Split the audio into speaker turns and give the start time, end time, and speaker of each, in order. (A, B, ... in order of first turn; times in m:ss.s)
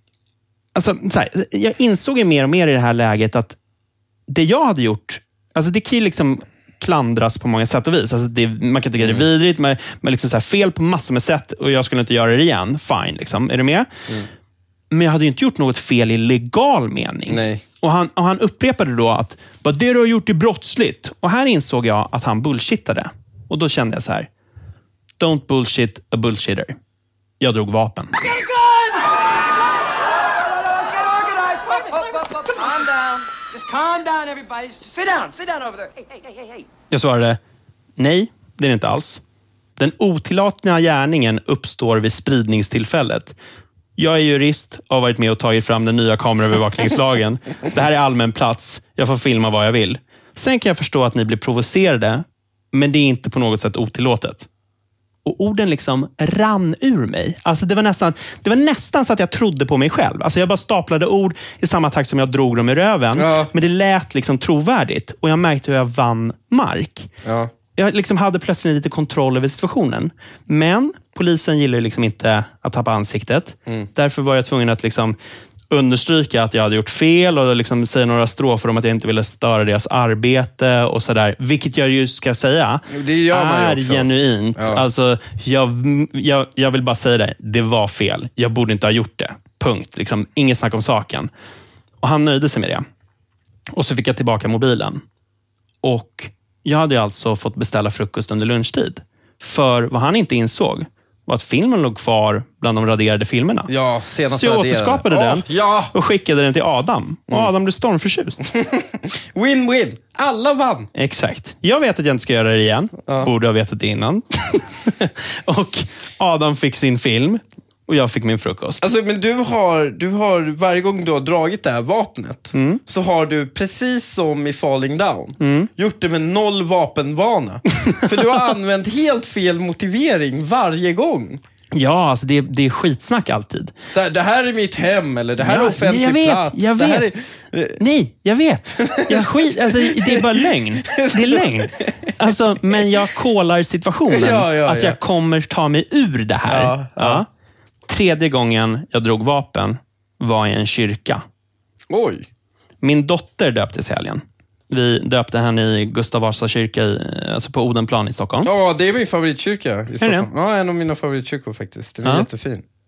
0:00.7-0:03.6 A
0:04.3-0:13.9 A
0:09.0-0:09.3 B
0:14.9-0:24.3 A
0:17.3-0:17.6 B
0:25.2-0:26.8 A
0:27.4-0:28.1 A
0:28.2-0:29.2 C
0:30.3-0:36.6 C
0:36.9-0:37.4 A
0:38.0-0:39.2 A
0:39.8-0:43.4 A
0:44.0-0:54.5 A
0:55.2-1:07.1 A
1:03.2-1:03.5 B
1:07.2-1:07.5 B
1:07.8-1:15.2 A
1:15.7-1:31.3 A
1:22.9-1:24.8 B
1:32.0-1:32.8 A
1:33.7-1:35.0 A
1:35.8-1:43.7 A
1:43.7-1:45.9 B
1:44.3-1:48.4 A
1:48.5-1:50.9 B
1:50.9-1:58.9 A
1:58.8-2:11.4 B
2:02.5-2:02.8 A
2:05.4-2:05.7 A
2:11.7-2:13.7 A
2:13.9-2:17.8 B
2:15.4-2:17.1 A
2:17.8-2:27.2 A
2:18.7-2:22.8 B
2:24.1-2:25.0 B
2:26.5-2:27.2 B
2:27.9-2:31.2 A
2:31.9-2:32.3 B
2:32.8-2:38.5 A
2:38.4-2:42.6 B
2:40.0-2:40.3 A